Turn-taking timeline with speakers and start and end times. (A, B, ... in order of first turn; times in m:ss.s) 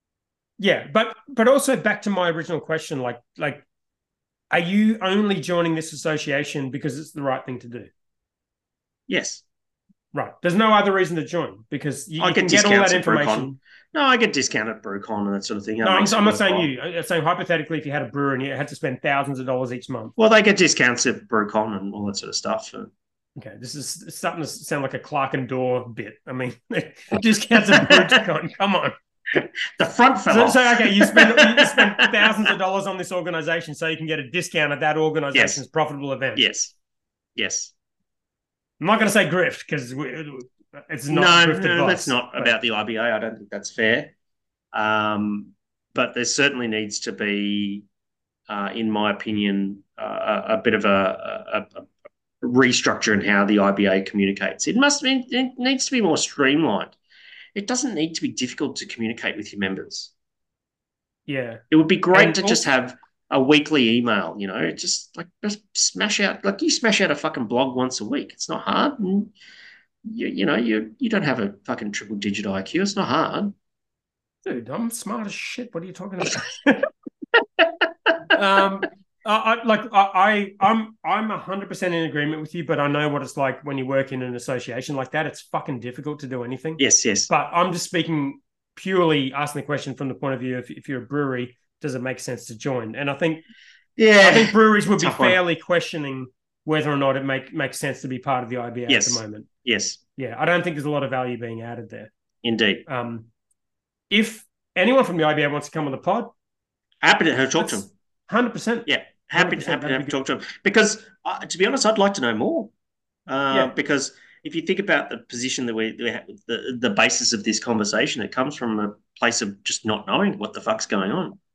0:00.6-0:03.6 A
0:04.5-0:07.9 A
0:09.1-0:09.4 B
0:10.1-0:13.6 A
0:12.2-0:16.7 B
0:15.8-0:20.1 A
0:20.2-0:22.9 B
0:23.4-0:29.0 A
0:27.6-0:28.2 B
0:29.4-0:32.5 B
0:30.3-0:36.5 A
0:35.3-0:35.6 B
0:36.4-0:36.7 B
0:37.4-0:37.7 B
0:38.8-0:42.6 A
0:41.1-0:44.1 B
0:44.7-0:47.8 B
0:48.5-0:51.9 B
0:52.4-0:57.0 B
0:57.6-1:00.1 B
1:01.3-1:02.6 A
1:01.7-1:09.3 B
1:10.0-1:13.5 B
1:14.4-1:16.9 A
1:18.3-1:33.4 A
1:26.8-1:27.3 B
1:34.0-1:35.4 B
1:34.2-1:39.5 A
1:38.9-1:40.0 B
1:40.2-1:42.1 A
1:42.4-1:42.8 B
1:42.9-1:43.3 A
1:44.1-1:46.3 A
1:47.0-1:47.9 B
1:47.6-1:50.2 A
1:48.9-1:52.7 B
1:53.3-2:01.4 B